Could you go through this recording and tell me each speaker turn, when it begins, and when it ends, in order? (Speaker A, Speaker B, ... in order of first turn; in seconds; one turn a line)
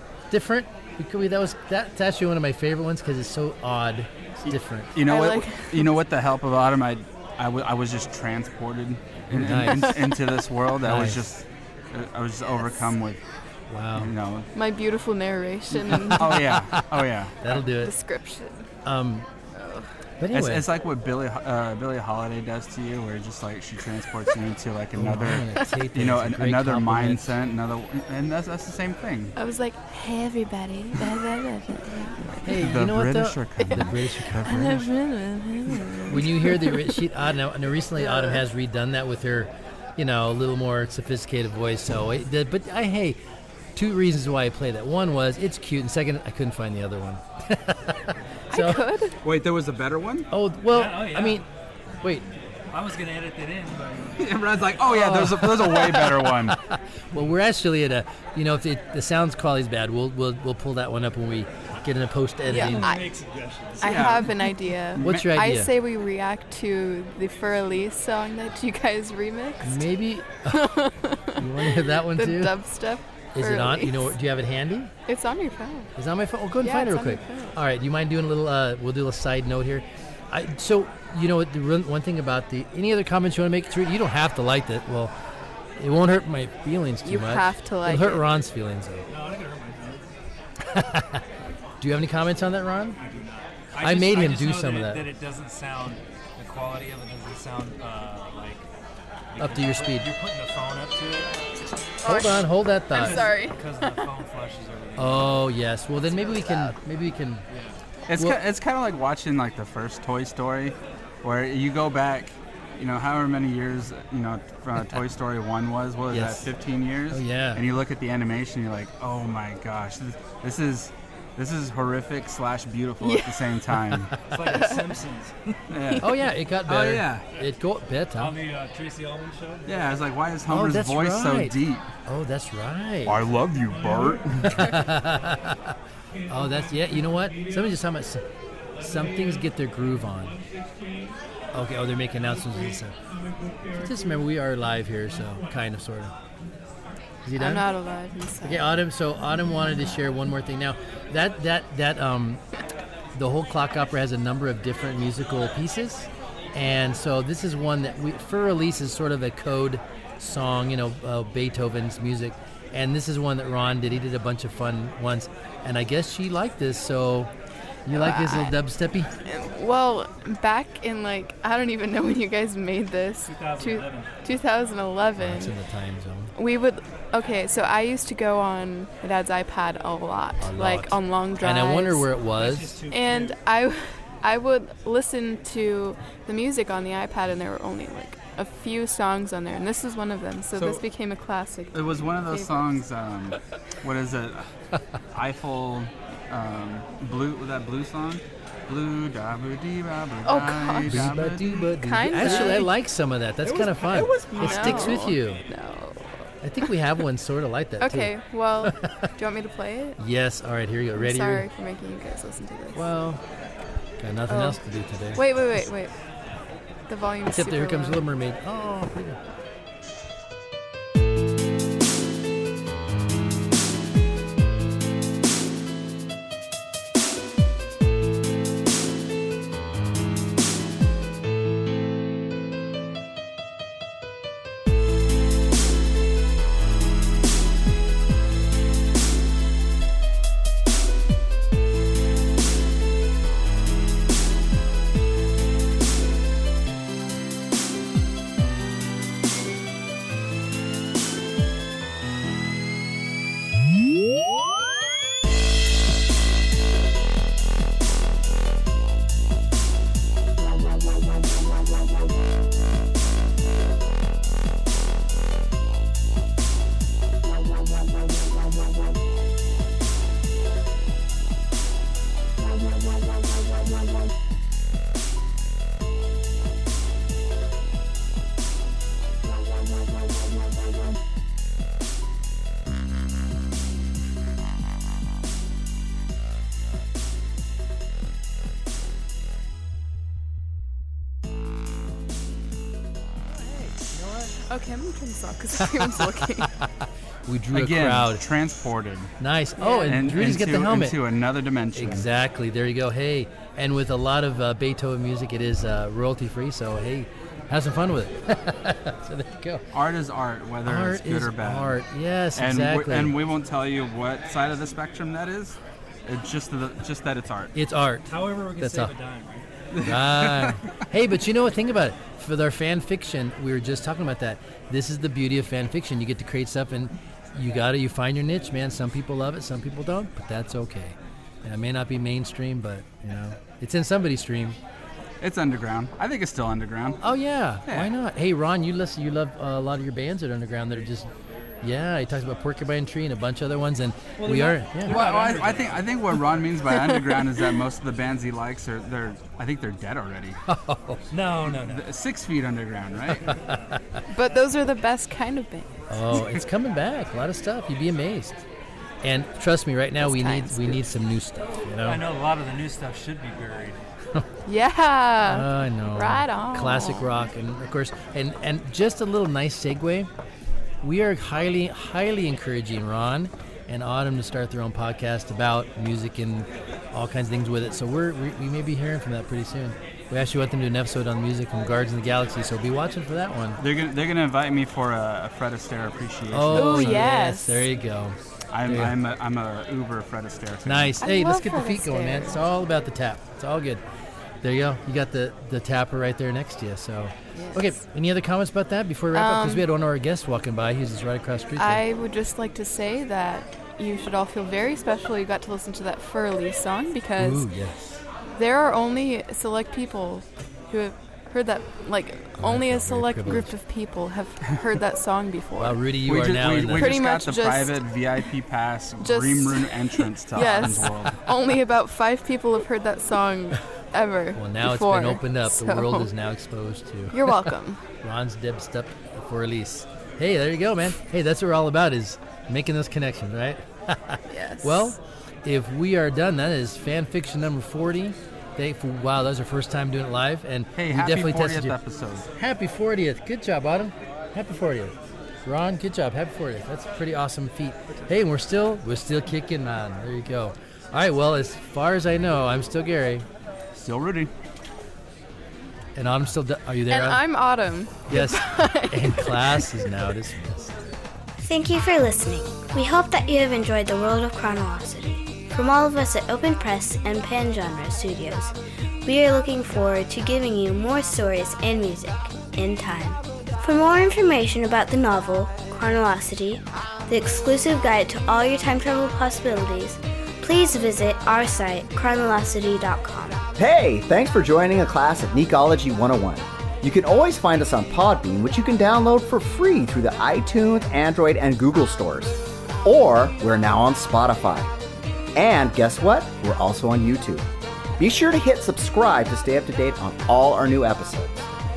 Speaker A: 0.3-4.9
Speaker B: 4.5-13.2
Speaker C: 5.0-5.9
Speaker A: 9.3-10.0
Speaker C: 9.7-10.0
Speaker A: 10.8-11.2
Speaker A: 13.7-14.1
Speaker B: 14.0-14.5
Speaker C: 14.5-16.4
Speaker A: 15.9-17.9
Speaker B: 16.1-17.3
Speaker C: 17.5-18.7
Speaker A: 18.8-19.3
Speaker C: 19.6-19.9
Speaker A: 20.2-20.7
Speaker B: 20.3-29.4
Speaker A: 24.9-27.4
Speaker C: 29.4-32.6
Speaker A: 32.4-34.9
Speaker B: 32.6-34.0
Speaker C: 33.6-37.1
Speaker A: 36.1-43.2
Speaker C: 38.0-38.4
Speaker A: 43.8-48.9
Speaker C: 48.5-49.2
Speaker B: 49.2-50.3
Speaker A: 50.3-51.5
Speaker D: 50.7-51.4
Speaker D: 52.7-54.4
Speaker B: 54.2-56.6
Speaker A: 54.9-62.9
Speaker C: 62.5-63.1
Speaker D: 62.5-63.9
Speaker C: 63.8-69.9
Speaker B: 63.8-64.3
Speaker B: 65.0-65.3
Speaker A: 65.0-65.7
Speaker A: 69.6-70.8
Speaker C: 70.5-74.1
Speaker A: 71.4-72.6
Speaker A: 73.3-74.9
Speaker C: 75.1-75.9
Speaker A: 76.0-85.1
Speaker C: 76.6-77.6
Speaker A: 85.8-89.1
Speaker C: 87.0-88.3
Speaker D: 89.1-90.0
Speaker A: 90.7-91.2
Speaker A: 91.8-93.0
Speaker D: 93.0-98.7
Speaker A: 93.8-95.1
Speaker D: 99.3-101.3
Speaker A: 99.4-100.1
Speaker C: 102.0-104.1
Speaker A: 102.0-103.2
Speaker D: 102.9-105.5
Speaker A: 105.0-107.5
Speaker D: 106.0-106.7
Speaker D: 107.5-107.8
Speaker B: 108.1-124.2
Speaker A: 116.1-116.5
Speaker A: 117.1-117.7
Speaker C: 123.0-123.6
Speaker D: 124.3-125.6
Speaker C: 124.5-124.9
Speaker B: 125.7-126.1
Speaker A: 126.0-128.4
Speaker B: 126.7-127.3
Speaker D: 128.2-130.0
Speaker B: 129.7-131.9
Speaker A: 130.5-133.2
Speaker B: 133.1-134.6
Speaker A: 134.4-135.8
Speaker A: 136.3-138.2
Speaker A: 138.8-140.4
Speaker A: 141.5-142.9
Speaker A: 143.8-146.1
Speaker A: 147.2-147.7
Speaker C: 147.4-148.8
Speaker A: 148.4-152.4
Speaker A: 153.1-167.3
Speaker A: 167.9-169.1
Speaker C: 167.9-168.6
Speaker C: 169.2-175.6
Speaker D: 173.2-174.1
Speaker A: 175.2-176.3
Speaker C: 176.4-182.1
Speaker A: 180.4-182.8
Speaker D: 182.4-183.4
Speaker C: 182.9-192.8
Speaker B: 190.6-190.8
Speaker B: 191.7-194.5
Speaker B: 195.1-201.6
Speaker C: 200.2-201.2
Speaker A: 200.9-205.4
Speaker C: 201.8-202.7
Speaker D: 202.2-202.6
Speaker D: 203.4-204.9
Speaker C: 204.3-206.3
Speaker A: 206.4-209.1
Speaker C: 207.8-210.0
Speaker A: 210.0-211.5
Speaker C: 210.9-212.8
Speaker A: 212.7-213.2
Speaker A: 214.0-215.6
Speaker C: 214.3-214.6
Speaker C: 215.1-215.9
Speaker C: 216.9-218.0
Speaker A: 217.3-219.2
Speaker A: 293.4-294.4
Speaker C: 294.5-296.5
Speaker A: 295.6-295.9
Speaker A: 297.3-298.2
Speaker B: 297.5-299.1
Speaker A: 299.2-301.0
Speaker C: 299.6-300.0
Speaker B: 299.9-302.1
Speaker A: 301.7-309.6
Speaker B: 309.7-311.8
Speaker A: 310.6-313.2
Speaker B: 312.4-317.5
Speaker A: 317.5-318.9
Speaker D: 318.1-319.5
Speaker B: 319.7-320.7
Speaker A: 319.8-334.6
Speaker B: 335.2-337.0
Speaker A: 337.0-341.1
Speaker B: 337.7-337.9
Speaker A: 341.6-345.1
Speaker D: 344.2-346.0
Speaker B: 344.9-350.4
Speaker A: 350.5-351.1
Speaker D: 351.1-351.9
Speaker B: 351.5-353.4
Speaker A: 353.3-353.8
Speaker C: 354.1-356.0
Speaker A: 355.9-358.4
Speaker A: 359.0-362.0
Speaker C: 360.0-360.8
Speaker D: 361.8-363.8
Speaker C: 364.4-367.3
Speaker A: 365.2-370.1
Speaker A: 370.8-383.6
Speaker B: 383.6-387.1
Speaker A: 386.3-389.0
Speaker C: 386.5-387.7
Speaker B: 388.5-391.0
Speaker A: 390.6-393.8
Speaker C: 391.0-392.4
Speaker A: 394.4-401.8
Speaker C: 397.3-397.8
Speaker C: 399.1-399.7
Speaker C: 401.6-407.5
Speaker A: 407.2-408.0
Speaker C: 408.3-415.8
Speaker A: 412.4-413.6
Speaker A: 415.6-416.9
Speaker B: 416.1-421.2
Speaker C: 416.7-417.8
Speaker C: 419.0-426.1
Speaker A: 420.4-421.1
Speaker A: 424.3-427.5
Speaker C: 427.1-427.8
Speaker A: 428.0-441.8
Speaker C: 434.3-435.0
Speaker B: 440.8-442.3
Speaker A: 442.4-453.3
Speaker B: 453.7-454.3
Speaker A: 456.0-457.2
Speaker C: 456.9-459.9
Speaker A: 458.1-460.8
Speaker E: 461.4-483.4
Speaker F: 483.6-494.7
Speaker F: 495.4-497.5
Speaker F: 498.0-501.5